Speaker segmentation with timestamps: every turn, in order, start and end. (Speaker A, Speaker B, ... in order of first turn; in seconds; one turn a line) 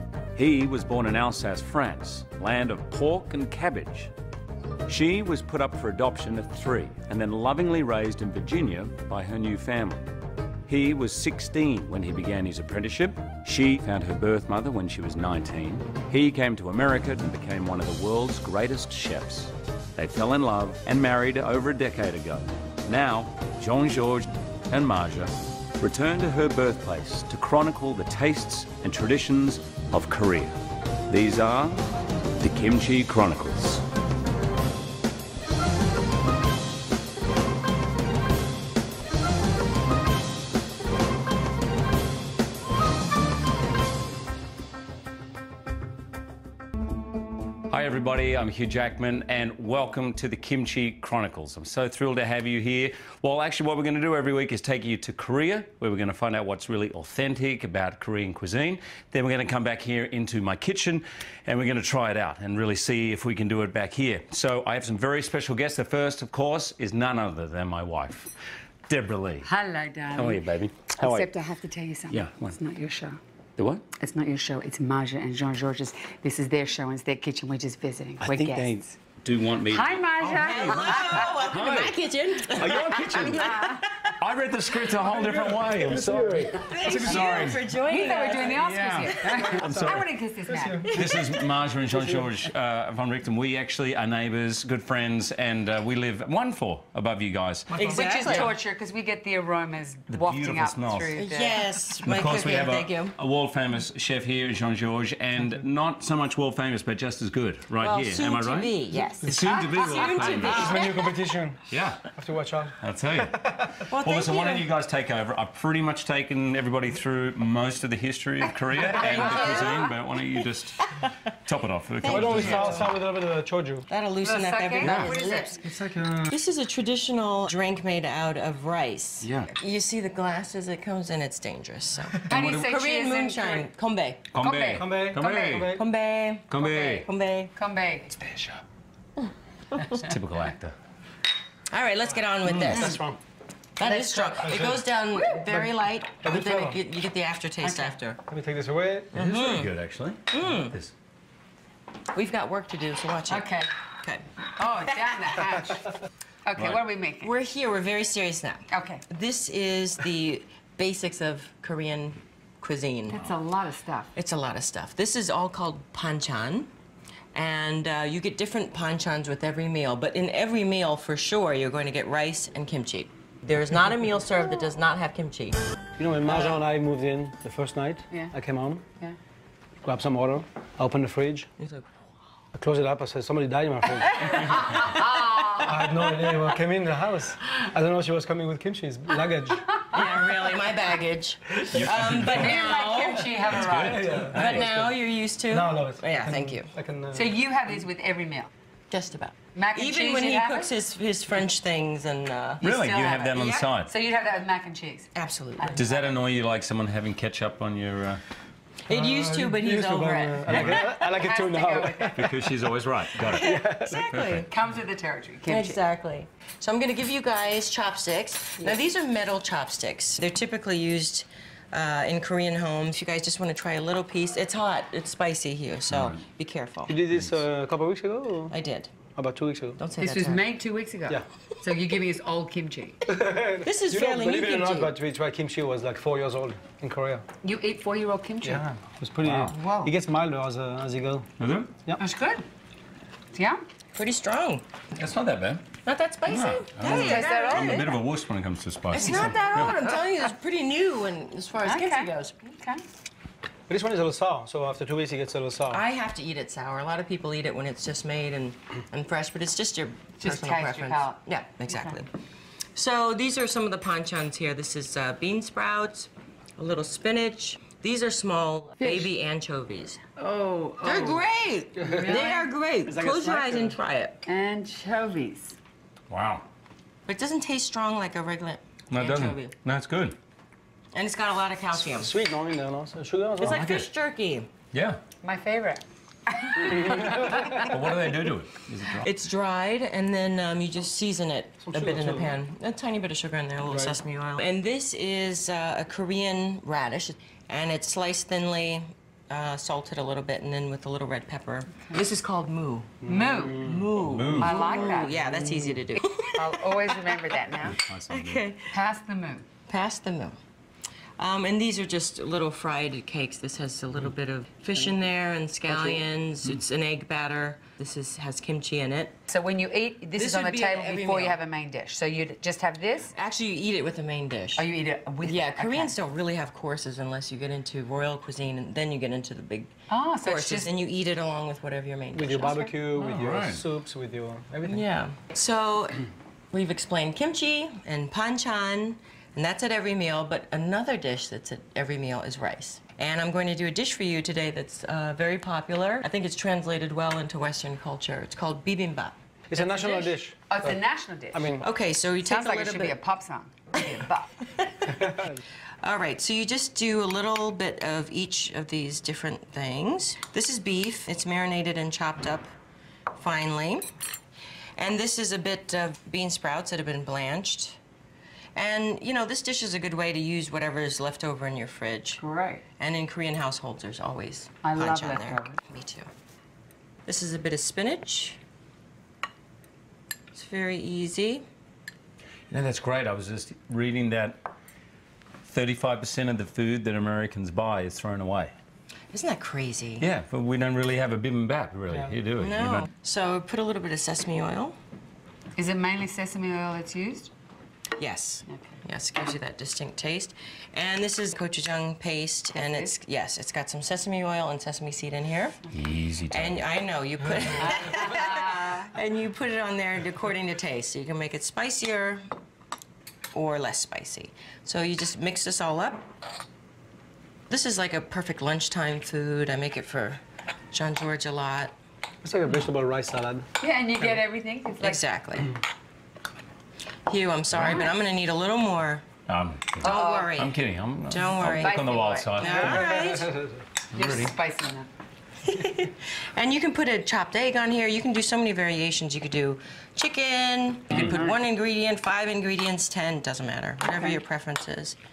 Speaker A: 0.3-4.1
Speaker A: 4.9-10.1
Speaker A: 10.7-30.6
Speaker A: 31.1-31.9
Speaker A: 32.4-33.8
Speaker A: 47.7-68.3
Speaker A: 68.9-69.5
Speaker B: 69.4-73.2
Speaker A: 70.1-71.3
Speaker A: 72.1-72.6
Speaker A: 73.6-73.8
Speaker B: 74.0-79.0
Speaker A: 78.2-82.0
Speaker B: 79.7-81.6
Speaker C: 80.3-84.1
Speaker A: 82.5-87.7
Speaker B: 83.4-83.8
Speaker D: 85.1-87.4
Speaker C: 86.6-88.6
Speaker B: 87.9-90.9
Speaker A: 88.5-90.1
Speaker D: 89.1-91.3
Speaker A: 90.9-98.5
Speaker D: 91.9-92.3
Speaker C: 97.7-98.5
Speaker B: 97.7-101.6
Speaker A: 100.1-101.2
Speaker C: 101.2-103.2
Speaker A: 102.0-110.7
Speaker C: 107.8-111.0
Speaker B: 108.9-110.9
Speaker D: 110.5-113.7
Speaker A: 111.7-112.0
Speaker A: 112.8-121.0
Speaker C: 113.9-114.7
Speaker C: 118.9-119.9
Speaker B: 119.0-119.9
Speaker A: 121.5-122.9
Speaker C: 122.0-122.9
Speaker D: 122.0-123.9
Speaker C: 123.9-125.6
Speaker B: 124.2-125.6
Speaker A: 124.8-125.1
Speaker D: 125.6-126.4
Speaker C: 126.3-134.2
Speaker A: 129.2-129.5
Speaker B: 132.2-133.7
Speaker A: 134.3-135.8
Speaker B: 134.4-135.6
Speaker D: 134.7-135.8
Speaker C: 135.6-137.5
Speaker A: 136.5-137.1
Speaker B: 137.6-138.1
Speaker A: 138.2-138.6
Speaker A: 140.0-140.8
Speaker C: 141.7-143.0
Speaker D: 142.5-143.2
Speaker C: 143.8-148.2
Speaker B: 143.8-144.6
Speaker D: 144.4-144.9
Speaker B: 145.2-145.5
Speaker D: 146.2-146.8
Speaker B: 147.6-148.0
Speaker D: 148.3-149.1
Speaker C: 149.1-149.7
Speaker A: 149.2-150.9
Speaker C: 150.3-150.8
Speaker C: 152.1-153.5
Speaker B: 153.3-153.7
Speaker B: 154.6-155.9
Speaker B: 156.5-157.3
Speaker A: 156.6-156.8
Speaker C: 157.2-163.2
Speaker B: 158.7-159.0
Speaker B: 163.1-164.1
Speaker C: 164.2-166.7
Speaker C: 167.3-175.6
Speaker D: 176.0-178.8
Speaker D: 179.8-181.5
Speaker C: 181.6-181.9
Speaker D: 182.6-184.6
Speaker C: 184.2-185.1
Speaker B: 184.3-185.8
Speaker D: 185.6-189.7
Speaker B: 189.8-190.0
Speaker C: 189.9-193.6
Speaker A: 191.7-192.6
Speaker B: 192.3-194.3
Speaker A: 193.4-194.7
Speaker D: 193.8-194.9
Speaker C: 194.3-196.7
Speaker D: 195.5-197.3
Speaker B: 197.1-198.5
Speaker C: 198.9-203.1
Speaker B: 199.6-200.7
Speaker A: 202.6-203.9
Speaker B: 202.7-206.2
Speaker C: 205.2-205.9
Speaker A: 205.8-208.2
Speaker C: 208.9-210.9
Speaker D: 208.9-212.4
Speaker A: 210.5-210.9
Speaker B: 211.0-212.3
Speaker A: 212.2-214.5
Speaker C: 213.2-214.5
Speaker D: 213.3-214.0
Speaker B: 214.5-215.8
Speaker C: 215.5-227.0
Speaker A: 225.9-226.2
Speaker D: 226.9-228.5
Speaker C: 228.5-228.9
Speaker D: 229.2-229.8
Speaker C: 229.8-230.4
Speaker B: 230.0-233.0
Speaker D: 233.1-237.2
Speaker C: 233.6-235.0
Speaker B: 237.4-238.6
Speaker D: 238.4-241.3
Speaker A: 239.2-239.5
Speaker B: 239.5-239.9
Speaker A: 241.4-241.7
Speaker B: 242.0-242.4
Speaker B: 243.3-243.6
Speaker C: 243.9-244.6
Speaker A: 245.0-245.6
Speaker C: 245.8-247.9
Speaker A: 246.3-249.8
Speaker B: 246.8-247.9
Speaker C: 248.9-252.3
Speaker B: 251.6-252.8
Speaker D: 253.7-255.8
Speaker C: 255.7-262.1
Speaker B: 260.2-262.0
Speaker C: 262.8-270.1
Speaker B: 268.8-269.1
Speaker B: 270.2-271.2
Speaker C: 270.8-274.2
Speaker D: 271.8-272.3
Speaker B: 271.8-272.5
Speaker D: 272.8-273.8
Speaker B: 274.3-275.6
Speaker A: 276.1-276.4
Speaker C: 277.1-279.5
Speaker A: 278.9-280.2
Speaker C: 280.9-282.1
Speaker D: 281.9-283.7
Speaker C: 283.4-284.5
Speaker A: 283.4-283.9
Speaker A: 284.7-285.0
Speaker B: 285.2-287.7
Speaker D: 286.6-287.6
Speaker A: 287.0-289.1
Speaker C: 288.9-303.0
Speaker D: 291.6-292.3
Speaker D: 293.7-294.0
Speaker D: 303.0-304.0
Speaker B: 303.0-303.7
Speaker C: 303.5-307.3
Speaker A: 304.0-304.8
Speaker B: 304.4-307.8
Speaker A: 307.6-308.5
Speaker C: 308.1-308.7
Speaker B: 308.7-309.4
Speaker C: 309.7-310.4
Speaker C: 311.2-319.2
Speaker B: 315.7-316.1
Speaker B: 319.3-323.1
Speaker C: 320.2-321.4
Speaker C: 323.1-324.7
Speaker B: 324.6-325.9
Speaker C: 325.2-332.7
Speaker B: 329.9-330.7
Speaker D: 332.1-334.8
Speaker A: 333.0-333.6
Speaker C: 334.6-349.9
Speaker D: 349.5-350.8
Speaker B: 349.7-351.6
Speaker D: 351.3-351.7
Speaker C: 351.6-353.0
Speaker B: 352.2-354.3
Speaker C: 354.6-355.0
Speaker D: 355.0-355.4
Speaker C: 355.8-362.5
Speaker C: 363.1-363.9
Speaker C: 364.8-367.8
Speaker C: 368.6-372.2
Speaker B: 372.2-372.6
Speaker C: 372.8-376.1
Speaker B: 374.6-375.6
Speaker C: 377.1-378.4
Speaker C: 380.3-381.4
Speaker A: 382.5-384.4
Speaker A: 385.4-388.5
Speaker C: 389.1-390.1
Speaker A: 390.0-392.9
Speaker C: 392.4-394.8
Speaker B: 395.6-397.3
Speaker C: 398.0-405.7
Speaker B: 398.5-398.8
Speaker B: 402.6-402.9
Speaker A: 405.7-406.6
Speaker C: 406.3-412.2
Speaker B: 407.6-408.9
Speaker C: 413.3-416.1
Speaker C: 417.5-420.2
Speaker C: 420.7-421.7
Speaker D: 422.2-423.5
Speaker B: 423.6-425.0
Speaker C: 424.8-425.5
Speaker C: 427.1-429.0
Speaker A: 427.5-427.8
Speaker B: 427.6-427.9
Speaker A: 429.3-432.9
Speaker B: 429.8-430.3
Speaker C: 429.8-433.4
Speaker B: 431.5-432.9
Speaker D: 432.6-433.6
Speaker A: 433.9-434.3
Speaker B: 433.9-434.9
Speaker C: 435.4-445.0
Speaker B: 440.9-441.4
Speaker B: 443.9-444.2